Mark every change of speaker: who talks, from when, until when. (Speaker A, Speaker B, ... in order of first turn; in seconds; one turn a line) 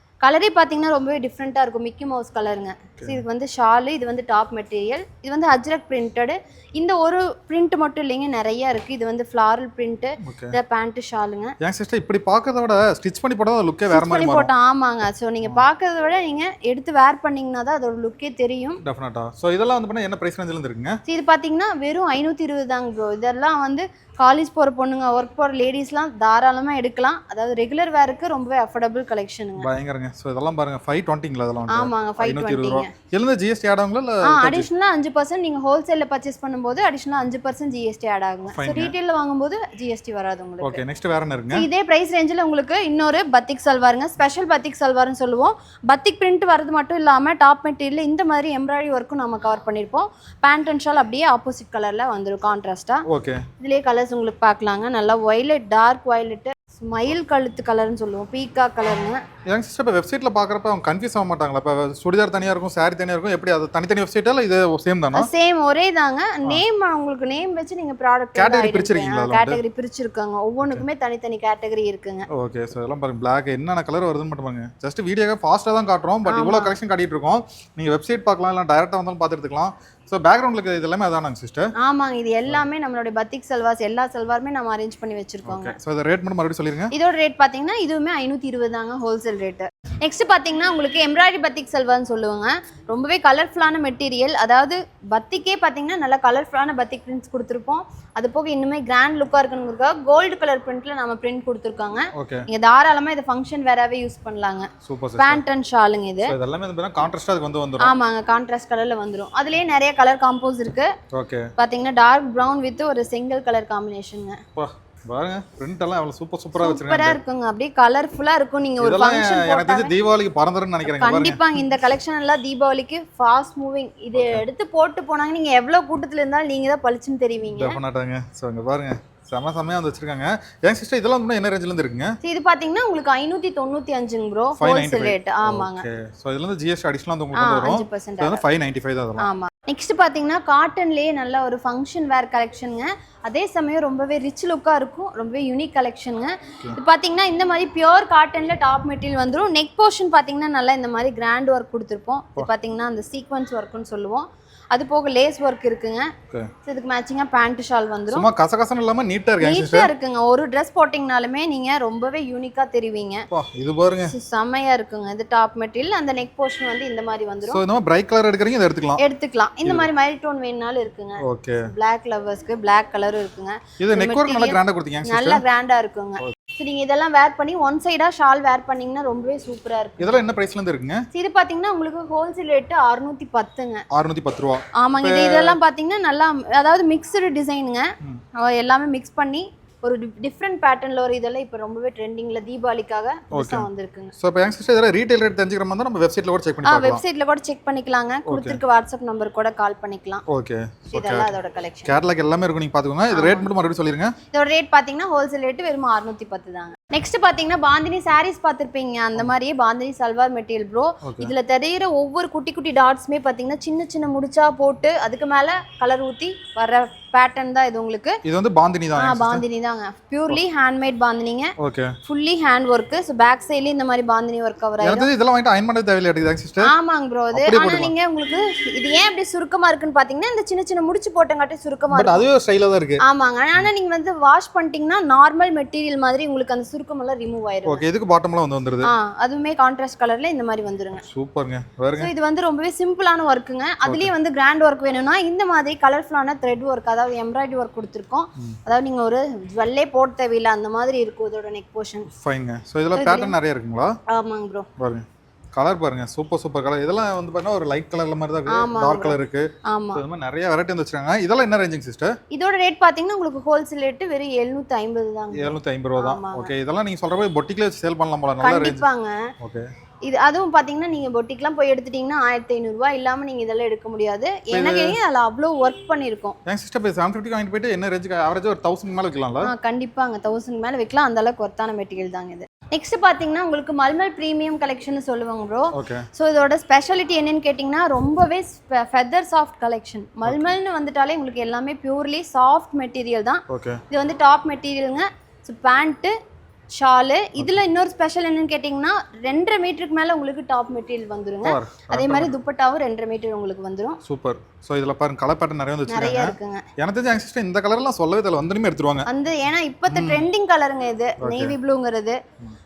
Speaker A: 0.2-11.5
Speaker B: 10.2-10.6
Speaker B: 11.6-14.5
Speaker A: 13.9-18.8
Speaker B: 18.8-21.0
Speaker A: 21.1-29.7
Speaker B: 29.6-34.7
Speaker A: 31.7-32.9
Speaker A: 34.2-40.8
Speaker B: 38.5-38.9
Speaker B: 40.6-41.7
Speaker A: 41.5-53.0
Speaker B: 53.1-53.5
Speaker A: 53.6-59.2
Speaker B: 59.5-65.3
Speaker A: 65.1-72.2
Speaker B: 68.3-69.6
Speaker B: 72.3-81.7
Speaker A: 76.2-76.7
Speaker A: 81.8-85.8
Speaker B: 85.4-86.9
Speaker A: 86.9-106.3
Speaker B: 102.1-102.5
Speaker B: 104.8-105.4
Speaker B: 106.2-107.9
Speaker A: 107.8-110.9
Speaker B: 111.1-111.5
Speaker A: 111.6-114.4
Speaker B: 114.5-117.2
Speaker A: 116.5-119.9
Speaker B: 118.8-121.5
Speaker A: 120.8-127.8
Speaker B: 124.1-124.4
Speaker B: 127.5-132.1
Speaker A: 132.2-135.8
Speaker B: 134.6-139.3
Speaker A: 137.3-138.4
Speaker A: 139.2-156.1
Speaker A: 156.6-158.3
Speaker B: 158.1-159.9
Speaker A: 159.4-163.2
Speaker B: 163.3-164.1
Speaker A: 164.1-167.6
Speaker B: 167.4-169.0
Speaker A: 169.0-180.2
Speaker B: 171.2-171.7
Speaker B: 173.8-175.4
Speaker B: 180.0-181.1
Speaker A: 181.1-183.8
Speaker B: 183.9-185.6
Speaker A: 184.7-194.1
Speaker B: 193.3-197.0
Speaker A: 196.6-200.2
Speaker B: 198.3-198.6
Speaker B: 200.3-201.3
Speaker A: 200.9-201.9
Speaker B: 201.8-204.1
Speaker A: 203.1-203.5
Speaker A: 204.3-218.2
Speaker B: 211.0-211.3
Speaker B: 218.2-219.4
Speaker A: 218.9-221.5
Speaker B: 221.6-222.0
Speaker A: 222.0-225.1
Speaker B: 224.8-226.7
Speaker A: 226.6-232.2
Speaker B: 227.3-227.9
Speaker B: 231.9-233.0
Speaker A: 233.0-237.8
Speaker B: 237.6-238.9
Speaker A: 238.8-241.0
Speaker B: 241.0-242.1
Speaker A: 242.0-252.1
Speaker B: 243.8-244.1
Speaker B: 252.1-253.9
Speaker A: 252.9-253.3
Speaker A: 254.1-254.7
Speaker B: 254.8-262.1
Speaker A: 258.5-260.0
Speaker A: 262.3-266.5
Speaker B: 265.3-268.8
Speaker A: 268.4-269.3
Speaker B: 269.4-269.7
Speaker A: 270.0-276.4
Speaker B: 274.5-275.0
Speaker B: 276.4-279.5
Speaker A: 279.4-296.1
Speaker B: 285.7-286.1
Speaker B: 290.2-290.5
Speaker B: 293.5-293.8
Speaker A: 296.7-304.0
Speaker B: 301.4-302.3
Speaker B: 304.0-309.1
Speaker A: 305.9-306.6
Speaker A: 309.1-312.2
Speaker B: 309.9-310.3
Speaker B: 311.2-311.5